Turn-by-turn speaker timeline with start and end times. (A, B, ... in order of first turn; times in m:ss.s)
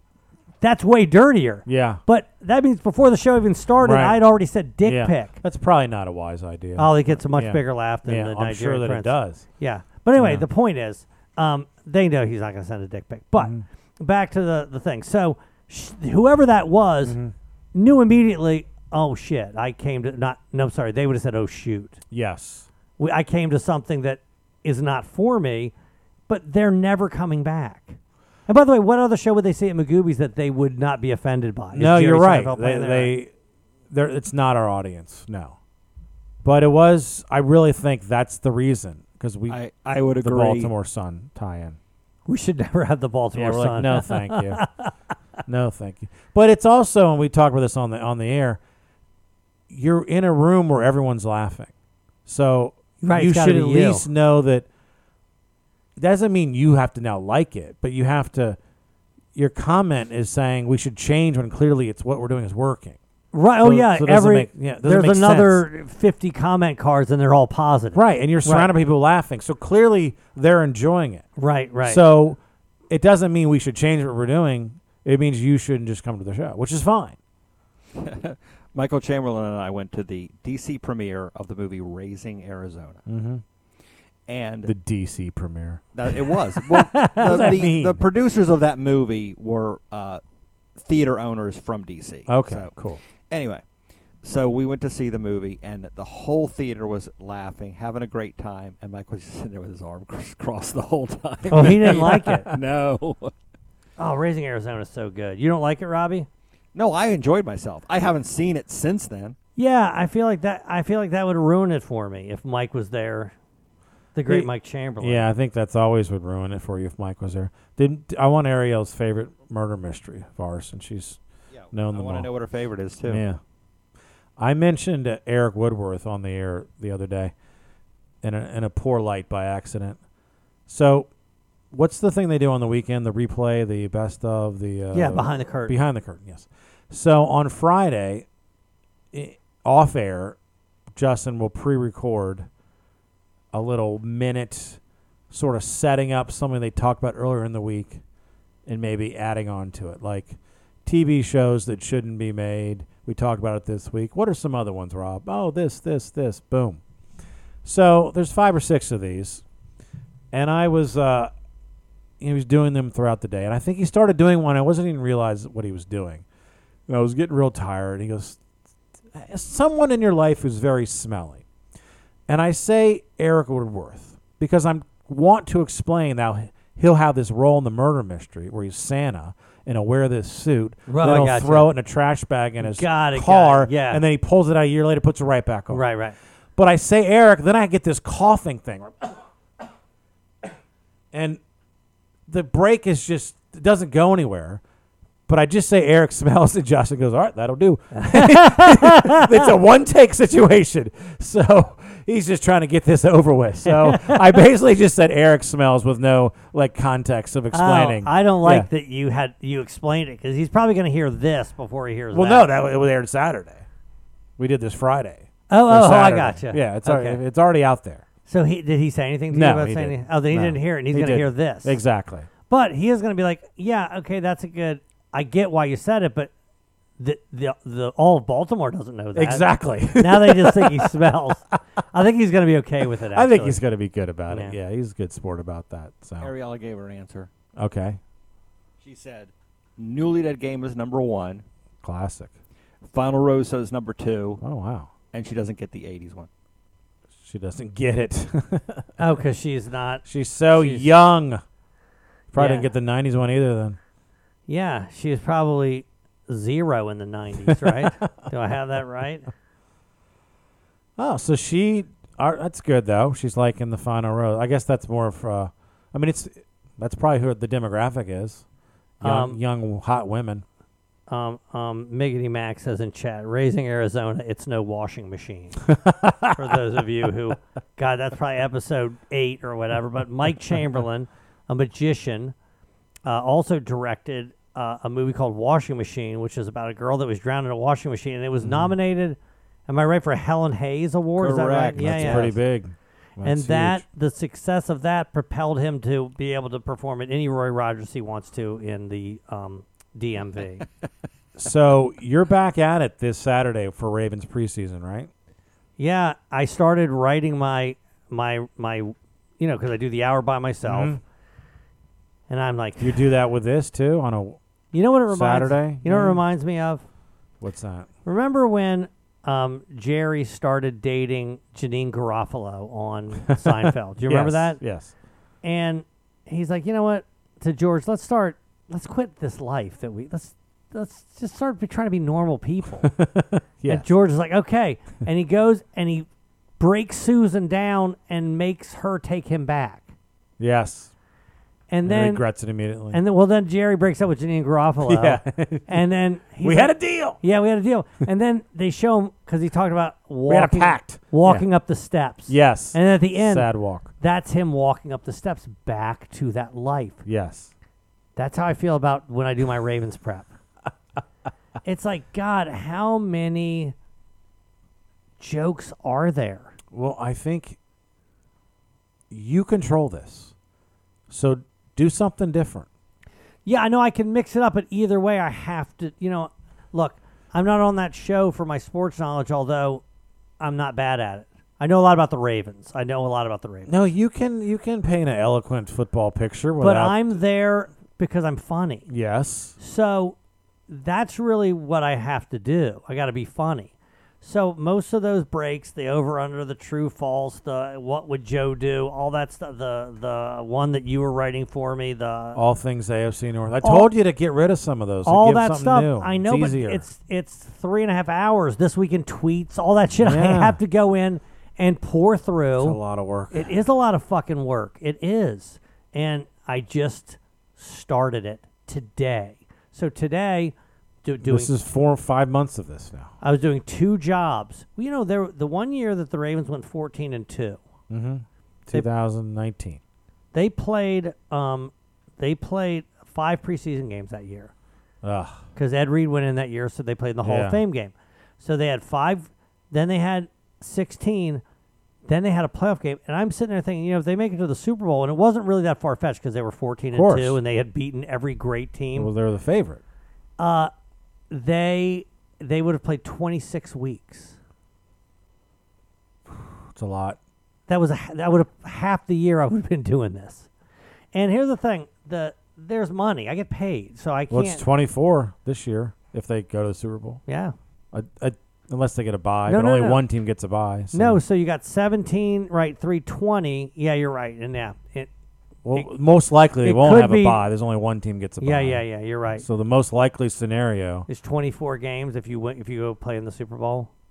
0:00.6-0:05.4 A
0:01.6-0:02.0 B
0:03.8-0:04.2 B
0:04.8-0:09.4 B
0:06.8-0:17.2 A
0:10.2-0:10.4 B
0:13.4-0:13.6 B
0:17.0-0:17.3 B
0:17.7-0:22.0 A
0:22.1-0:22.7 B
0:23.0-0:25.7 A
0:26.3-0:33.1 A
0:31.7-0:33.3 B
0:33.9-0:35.6 B
0:36.4-0:39.6 B
0:39.5-0:40.7 C
0:40.2-0:41.8 B
0:42.3-0:44.9 A
0:43.3-0:44.6 B
0:45.5-0:48.6 B
0:49.7-0:51.7 B
0:52.3-0:54.7 B
0:53.0-0:54.1 A
0:56.0-0:58.6 B
0:59.3-1:03.0 B
1:03.3-1:08.7 A
1:03.6-1:05.6 B
1:07.9-1:11.2 B
1:11.4-1:12.0 A
1:11.8-1:17.2 B
1:18.0-1:23.0 C
1:23.0-1:23.4 B
1:24.3-1:24.7 C
1:24.6-1:25.8 B
1:25.9-1:30.2 C
1:26.8-1:28.0 B
1:26.8-1:27.6 A
1:30.8-1:32.7 C
1:32.3-1:33.0 B
1:33.3-1:33.6 C
1:34.2-1:43.3 C
1:41.5-1:42.5 A
1:41.5-1:42.4 B
1:44.0-1:46.3 A
1:46.7-1:49.4 C
1:49.6-1:53.3 A
1:54.1-1:55.3 A
1:54.3-2:01.2 B
2:01.5-2:03.2 C
2:01.7-2:02.3 B
2:03.1-2:03.4 B
2:04.4-2:07.3 B
2:08.2-2:10.0 B
2:10.7-2:11.1 B
2:11.7-2:18.3 B
2:14.9-2:15.8 A
2:19.1-2:20.4 B
2:20.9-2:22.5 B
2:23.5-2:28.0 B
2:28.6-2:36.8 B
2:37.6-2:39.4 B
2:40.3-2:41.3 B
2:42.2-2:46.2 B
2:46.9-2:48.4 B
2:49.1-2:51.4 B
2:52.3-3:05.9 B
3:00.9-3:01.7 A
3:02.6-3:04.0 A
3:05.7-3:06.2 A
3:06.6-3:09.2 B
3:11.1-3:11.4 B
3:12.3-3:14.6 B
3:15.3-3:28.7 B
3:17.9-3:19.4 A
3:23.6-3:24.4 A
3:27.5-3:32.5 A
3:32.1-3:33.6 B
3:34.4-3:38.0 B
3:35.5-3:37.2 A
3:38.3-3:41.8 A
3:39.3-3:42.3 B
3:42.5-3:46.3 A
3:47.0-3:53.6 A
3:49.1-3:51.0 B
3:53.1-3:56.3 B
3:54.3-3:54.6 A
3:56.2-3:57.3 C
3:57.6-3:58.0 B
3:58.8-4:01.4 C
4:01.8-4:02.3 B
4:02.9-4:04.4 C
4:04.4-4:04.9 B
4:05.1-4:06.3 C
4:07.2-4:08.9 B
4:09.0-4:10.9 A
4:10.0-4:11.4 B
4:12.3-4:13.8 B
4:12.3-4:12.7 A
4:14.5-4:19.3 A
4:17.4-4:18.0 B
4:21.0-4:28.4 B
4:29.0-4:30.4 B
4:29.0-4:29.4 A
4:31.1-4:35.7 A
4:35.7-4:36.6 B
4:36.3-4:42.3 A
4:43.0-4:52.4 A
4:48.4-4:48.7 B
4:51.2-4:52.3 C
4:51.8-4:53.8 B
4:53.2-5:00.6 A
5:01.3-5:05.1 B
5:05.8-5:11.0 A
5:10.6-5:11.0 B
5:12.3-5:13.0 A
5:12.8-5:14.4 B
5:14.7-5:16.8 A
5:15.1-5:16.2 B
5:17.4-5:17.9 B
5:18.0-5:24.6 A
5:23.3-5:24.9 B
5:25.4-5:32.9 A
5:32.8-5:33.9 B
5:33.7-5:36.1 A
5:36.6-5:39.9 A
5:40.4-5:40.9 B
5:41.7-5:42.3 A
5:41.9-5:43.0 B
5:42.9-5:57.0 A
5:44.8-5:45.8 B
5:46.4-5:47.2 B
5:50.3-5:51.4 B
5:52.3-5:53.9 B
5:57.0-5:57.5 B
5:58.2-6:00.3 A
6:01.6-6:03.7 A
6:05.2-6:06.6 A
6:06.7-6:07.6 B
6:09.1-6:10.3 B
6:11.1-6:12.7 B
6:13.4-6:19.8 A
6:20.4-6:23.8 A
6:23.7-6:27.1 B
6:26.6-6:28.9 A
6:28.9-6:29.6 B
6:29.6-6:30.2 A
6:30.7-6:42.4 A
6:42.3-6:46.8 B
6:43.6-6:43.9 A
6:45.0-6:52.8 A
6:50.0-6:50.6 B
6:52.6-6:53.5 B
6:53.3-7:01.6 A
7:01.2-7:03.1 B
7:03.2-7:07.6 A
7:07.9-7:09.8 B
7:10.3-7:14.5 A
7:15.0-7:15.4 B
7:15.6-7:21.4 A
7:17.2-7:17.6 B
7:22.0-7:29.1 A
7:26.9-7:27.4 B
7:28.9-7:29.8 B
7:30.4-7:30.7 A
7:31.3-7:34.4 A
7:36.3-7:37.2 B
7:37.7-7:40.5 A
7:41.1-7:44.6 A
7:44.3-7:47.2 B
7:47.3-7:47.6 A
7:47.9-7:51.2 B
7:49.5-7:50.0 A
7:50.9-7:55.1 A
7:55.6-7:58.8 B
7:56.6-7:57.4 A
7:58.4-7:59.4 A
7:59.4-8:01.1 B
8:01.1-8:03.9 A